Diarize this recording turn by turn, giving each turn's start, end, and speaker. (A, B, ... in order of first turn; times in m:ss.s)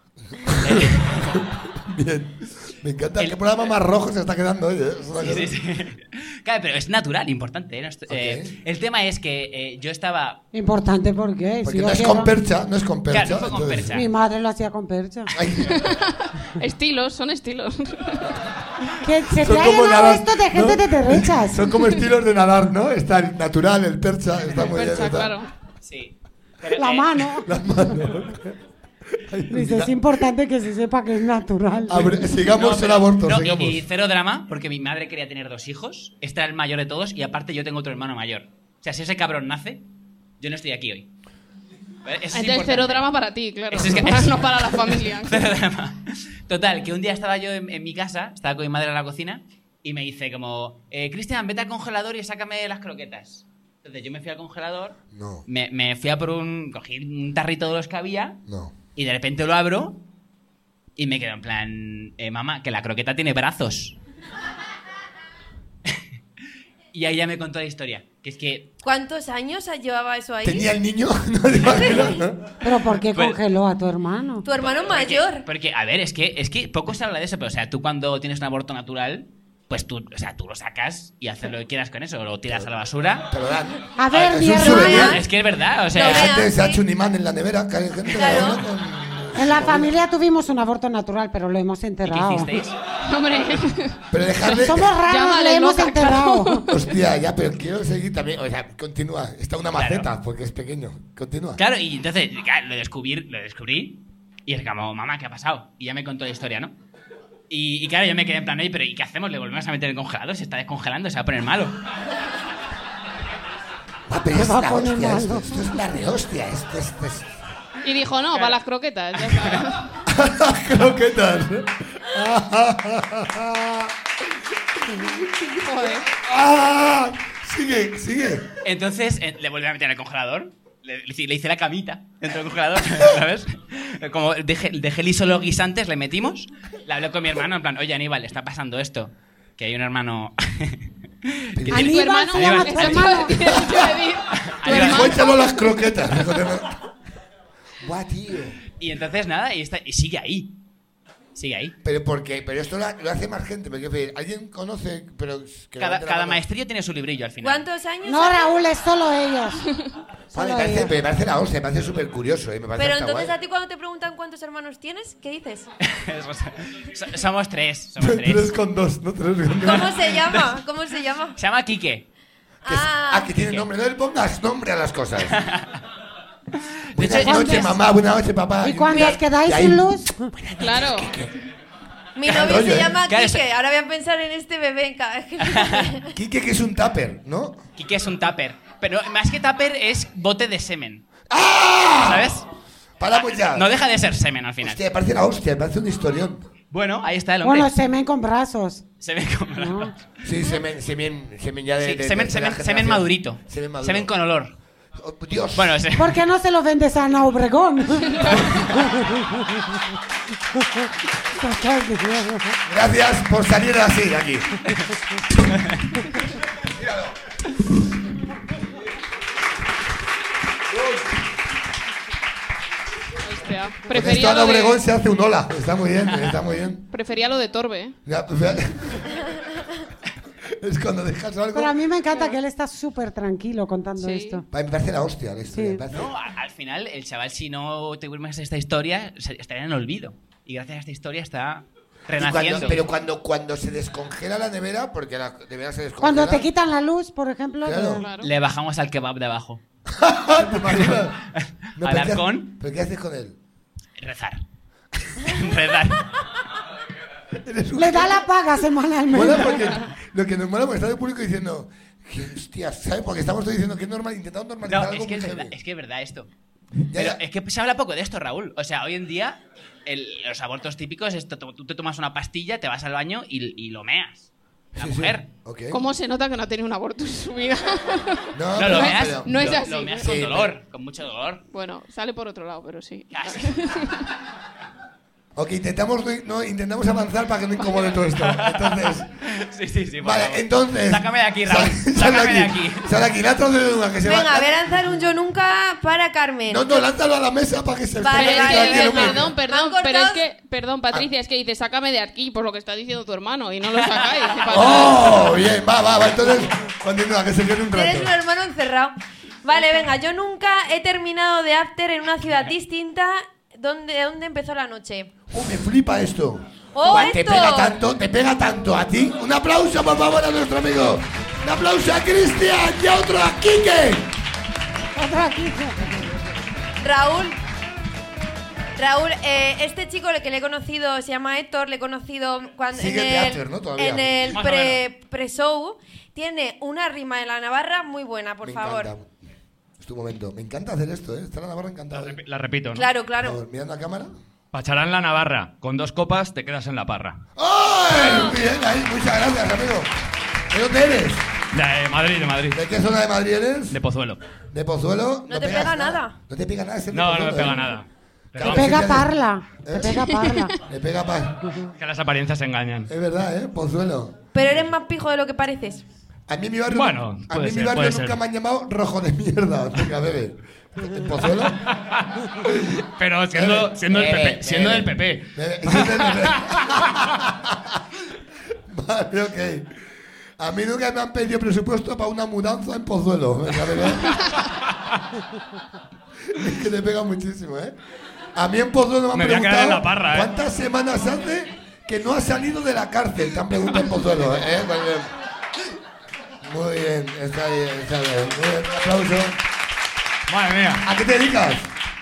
0:00.3-0:05.5 A
0:00.5-0:01.4 B
0:03.2-0:03.5 B
0:05.2-0:10.4 B
0:08.1-0:08.5 A
0:10.5-0:12.3 C
0:11.6-0:14.0 A
0:13.1-0:14.1 B
0:13.9-0:15.3 C
0:15.3-0:15.9 A
0:15.7-0:18.4 D
0:19.0-0:21.7 C
0:19.4-0:25.3 A
0:24.7-0:25.5 D
0:25.8-0:27.2 B
0:26.8-0:27.6 C
0:27.4-0:28.6 A
0:29.1-0:30.1 A
0:29.5-0:32.2 C
0:31.9-0:33.9 A
0:32.4-0:39.8 B
0:40.4-0:41.1 B
0:42.0-0:43.1 B
0:42.3-0:45.5 D
0:43.7-0:58.4 B
0:55.1-0:55.4 A
0:58.5-0:58.7 A
0:58.9-1:00.0 B
1:01.0-1:04.0 B
1:06.9-1:08.7 B
1:08.8-1:10.7 E
1:10.4-1:12.5 A
1:11.6-1:12.2 E
1:12.6-1:14.4 C
1:13.1-1:13.4 B
1:14.4-1:15.5 E
1:14.8-1:23.3 B
1:22.4-1:22.7 A
1:23.3-1:25.3 A
1:24.0-1:25.1 C
1:24.6-1:25.3 E
1:25.0-1:26.4 B
1:25.9-1:26.8 E
1:26.0-1:29.9 A
1:28.1-1:28.6 E
1:29.3-1:32.5 C
1:32.0-1:32.8 B
1:33.0-1:36.8 D
1:34.1-1:34.9 A
1:34.6-1:36.7 C
1:36.7-1:41.6 A
1:39.7-1:40.1 B
1:41.6-1:46.7 B
1:47.5-1:51.8 B
1:54.1-1:57.3 A
1:54.3-1:55.5 C
1:57.8-1:59.9 D
2:00.0-2:03.9 A
2:04.8-2:08.5 A
2:05.6-2:06.1 D
2:08.6-2:23.2 B
2:21.5-2:21.9 A
2:21.7-2:23.3 C
2:21.8-2:25.9 D
2:23.3-2:24.0 A
2:24.4-2:25.2 B
2:24.6-2:26.8 A
2:27.8-2:28.6 A
2:28.8-2:30.5 B
2:31.3-2:31.7 B
2:31.8-2:36.4 A
2:35.8-2:37.7 B
2:37.4-2:38.5 E
2:38.0-2:39.7 C
2:40.3-2:40.9 C
2:40.3-2:43.3 A
2:42.8-2:45.7 E
2:45.8-2:48.5 B
2:48.0-2:50.2 A
2:49.6-2:51.4 E
2:51.4-2:52.0 B
2:52.6-2:53.4 E
2:52.6-2:55.4 A
2:53.4-2:53.6 B
2:55.3-2:55.8 B
2:56.9-2:57.7 B
2:56.9-3:01.3 A
2:57.2-2:57.8 C
2:58.6-3:00.3 C
3:00.6-3:01.1 D
3:02.2-3:06.1 E
3:02.2-3:03.0 A
3:02.3-3:03.4 B
3:05.4-3:05.9 B
3:06.1-3:07.6 A
3:07.8-3:11.0 B
3:11.3-3:12.3 A
3:12.0-3:12.5 B
3:13.0-3:13.7 A
3:13.4-3:14.8 B
3:14.6-3:16.5 A
3:16.7-3:17.7 B
3:17.4-3:18.8 C
3:19.0-3:19.9 B
3:19.6-3:19.9 C
3:20.2-3:24.1 A
3:21.8-3:24.6 B
3:25.0-3:25.7 A
3:25.5-3:26.2 B
3:25.9-3:29.6 C
3:31.4-3:32.6 C
3:32.6-3:34.5 A
3:43.2-3:44.8 D
3:43.9-3:46.8 A
3:46.9-3:48.0 D
3:48.0-3:49.2 A
3:50.6-3:51.8 A
3:51.5-3:54.4 C
3:54.0-3:54.4 D
3:54.5-3:56.1 A
3:55.5-3:55.8 C
3:55.9-4:02.8 B
4:02.2-4:06.5 A
4:06.0-4:08.0 C
4:07.6-4:08.1 A
4:08.0-4:08.3 D
4:08.2-4:09.6 B
4:09.9-4:13.4 A
4:10.7-4:12.5 B
4:14.0-4:14.4 B
4:15.2-4:16.1 B
4:17.4-4:18.2 A
4:17.8-4:19.6 C
4:19.1-4:25.6 A
4:24.6-4:26.3 B
4:26.9-4:27.2 A
4:26.9-4:35.3 B
4:34.8-4:35.8 A
4:35.7-4:40.2 D
4:38.3-4:40.5 A
4:38.5-4:41.4 B
4:41.5-4:44.0 D
4:43.1-4:43.5 B
4:45.4-4:49.1 A
4:48.1-4:52.9 B
4:50.0-4:54.5 A
4:54.0-4:56.8 E
4:56.5-4:59.3 A
4:58.0-5:00.2 E
4:58.1-5:05.4 D
5:04.5-5:08.1 A
5:07.7-5:15.2 E
5:15.3-5:24.1 A
5:16.7-5:17.8 E
5:25.0-5:25.9 C
5:26.8-5:27.4 E
5:28.8-5:38.9 E
5:32.7-5:34.4 A
5:34.3-5:34.8 F
5:38.4-5:39.1 A
5:39.8-5:42.2 A
5:41.9-5:42.9 F
5:42.7-5:43.4 E
5:43.2-5:44.1 A
5:44.5-5:47.2 F
5:47.4-5:49.9 A
5:48.0-5:48.3 E
5:50.5-5:51.2 A
5:51.5-5:52.6 F
5:52.5-5:53.8 A
5:53.7-5:54.2 F
5:54.5-5:57.8 A
5:55.3-5:56.2 E
5:56.9-5:59.0 F
5:58.3-5:59.9 A
5:58.4-6:00.5 C
5:59.8-6:00.6 D
6:00.6-6:01.5 A
6:01.8-6:02.9 F
6:02.9-6:04.2 A
6:04.3-6:05.8 E
6:06.3-6:11.6 A
6:06.7-6:08.2 F
6:11.6-6:16.8 F
6:13.3-6:17.8 A
6:18.7-6:19.7 A
6:20.4-6:24.2 A
6:26.3-6:27.7 A
6:28.3-6:35.1 A
6:29.1-6:30.3 F
6:36.4-6:39.4 A
6:40.3-6:40.8 F
6:40.8-6:41.7 A